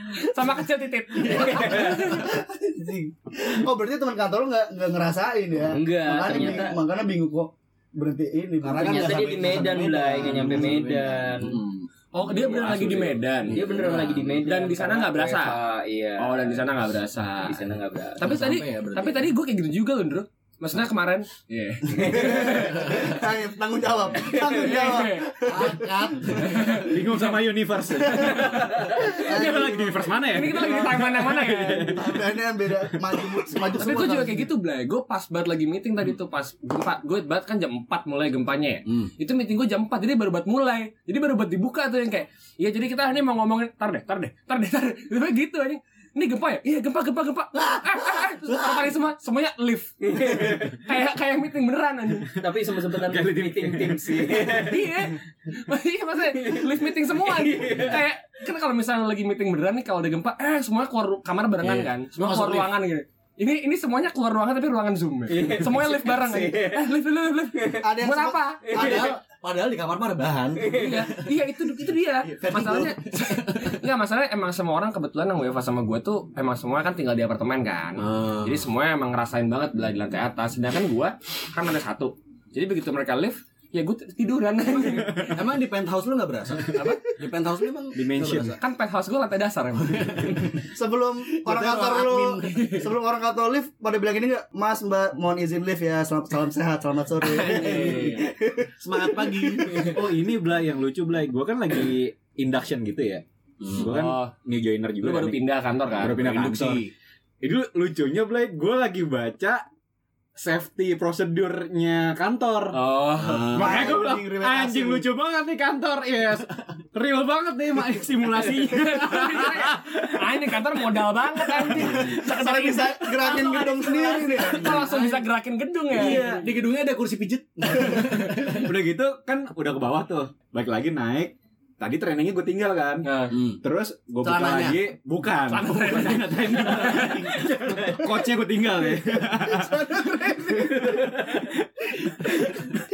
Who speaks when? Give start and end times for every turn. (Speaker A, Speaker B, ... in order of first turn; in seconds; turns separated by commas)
Speaker A: 0.1-2.3, Speaker B: 1.7-9.3, Speaker C: 5.7-6.8, Speaker D: 8.6-14.4, Speaker C: 8.8-11.6, Speaker A: 12.1-13.6, Speaker C: 13.5-16.7, Speaker A: 14.4-15.6, Speaker A: 16.2-17.6, Speaker C: 17.4-18.2, Speaker A: 18.1-22.9, Speaker D: 18.2-19.3, Speaker C: 21.9-22.4, Speaker B: 22.0-26.6, Speaker A: 24.3-25.4, Speaker D: 25.4-26.7, Speaker A: 26.4-27.2, Speaker E: 26.8-32.2, Speaker A: 28.0-32.0, Speaker B: 28.9-31.2, Speaker B: 31.8-34.5, Speaker A: 33.7-52.3, Speaker C: 50.1-50.5, Speaker C: 52.3-54.9, Speaker E: 53.0-54.7, Speaker A: 54.6-68.8, Speaker C: 56.4-58.0, Speaker D: 61.6-62.7, Speaker C: 65.3-66.8, Speaker B: 67.8-69.2, Speaker C: 68.7-69.0, Speaker D: 68.7-71.2, Speaker C: 70.6-70.9, Speaker A: 70.7-85.4, Speaker D: 72.2-73.8, Speaker D: 78.0-78.6, Speaker D: 85.3-88.6, Speaker A: 86.7-87.0, Speaker E: 87.9-88.6, Speaker A: 88.6-90.5, Speaker D: 89.9-90.4, Speaker B: 90.7-99.8, Speaker D: 91.4-92.7, Speaker A: 92.5-92.8, Speaker A: 97.2-98.3, Speaker D: 98.8-100.0, Speaker E: 99.8-103.2, Speaker D: 103.6-103.9, Speaker E: 103.7-105.4, Speaker A: 103.8-104.3, Speaker A: 105.0-106.2, Speaker E: 106.0-106.8, Speaker D: 106.0-106.9, Speaker E: 107.4-109.6, Speaker E: 110.3-112.7, Speaker A: 112.7-113.6, Speaker D: 113.2-113.9, Speaker E: 113.5-120.1, Speaker B: 113.5-115.0, Speaker A: 118.5-126.4, Speaker E: 121.7-122.1, Speaker B: 121.8-124.8, Speaker D: 124.4-125.2, Speaker E: 125.9-126.5, Speaker D: 125.9-128.7, Speaker E: 128.4-133.1, Speaker A: 133.0-133.3, Speaker D: 133.3-133.6, Speaker E: 133.6-139.9, Speaker D: 134.2-134.8, Speaker A: 135.5-137.4, Speaker B: 139.3-141.3, Speaker E: 140.5-142.7